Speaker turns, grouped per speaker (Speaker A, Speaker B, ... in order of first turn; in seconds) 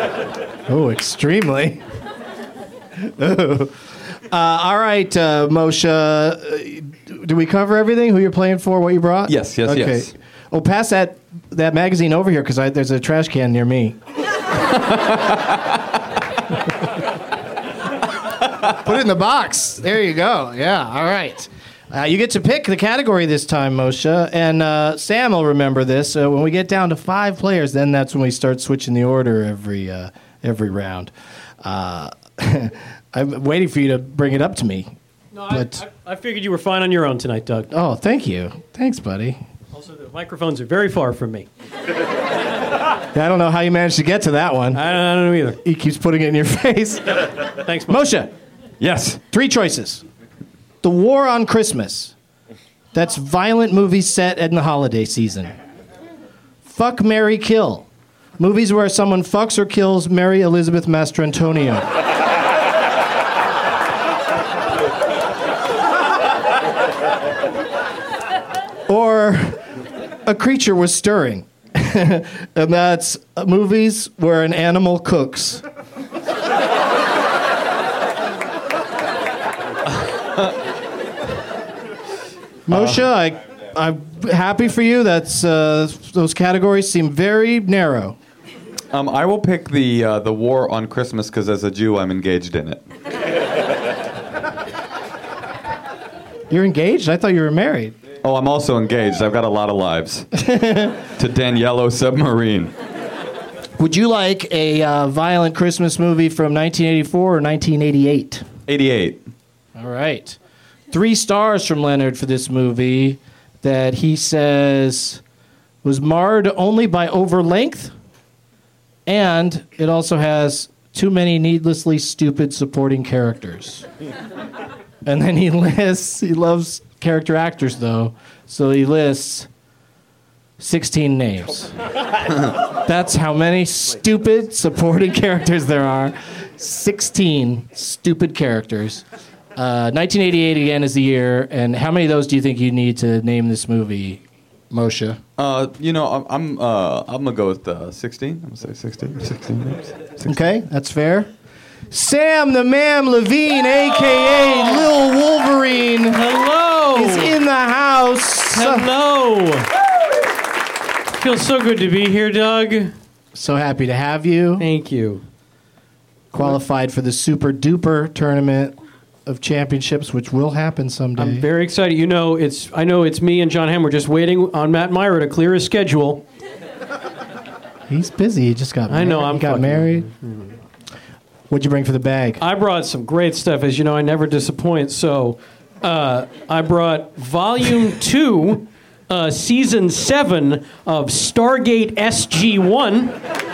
Speaker A: 0.7-1.8, 3.0-3.7, 4.3-14.0, 18.8-31.1, 31.6-34.9, 35.5-35.8, 37.7-39.4, 43.1-44.8, 45.6-47.2, 47.9-48.3, 49.3-50.0, 50.8-52.1, 52.9-55.5, 56.6-57.9, 58.4-61.9, 68.9-69.6, 70.3-75.6, 82.7-88.2, 96.5-97.9, 100.4-101.0, 103.8-108.4, 109.8-110.4, 110.9-115.2, 115.8-117.9, 119.1-123.9, 125.0-129.5, 130.6-131.7, 132.9-139.0, 139.6-145.2, 150.2-151.3, 151.9-156.3, 156.9-158.9, 163.3-164.7, 166.3-171.5, 177.9-180.1, 181.5-182.4
Speaker B: 9.3-10.1, 14.7-15.4, 48.8-49.2, 82.7-83.1, 88.9-92.8, 98.2-100.3, 101.2-102.7, 108.7-109.2, 145.4-150.4
Speaker C: 35.3-37.7, 39.7-41.5, 44.7-45.6, 47.6-48.2, 156.1-157.4, 158.5-159.7, 161.2-162.9, 164.6-165.2, 171.2-176.2, 178.9-180.6, 182.4-193.2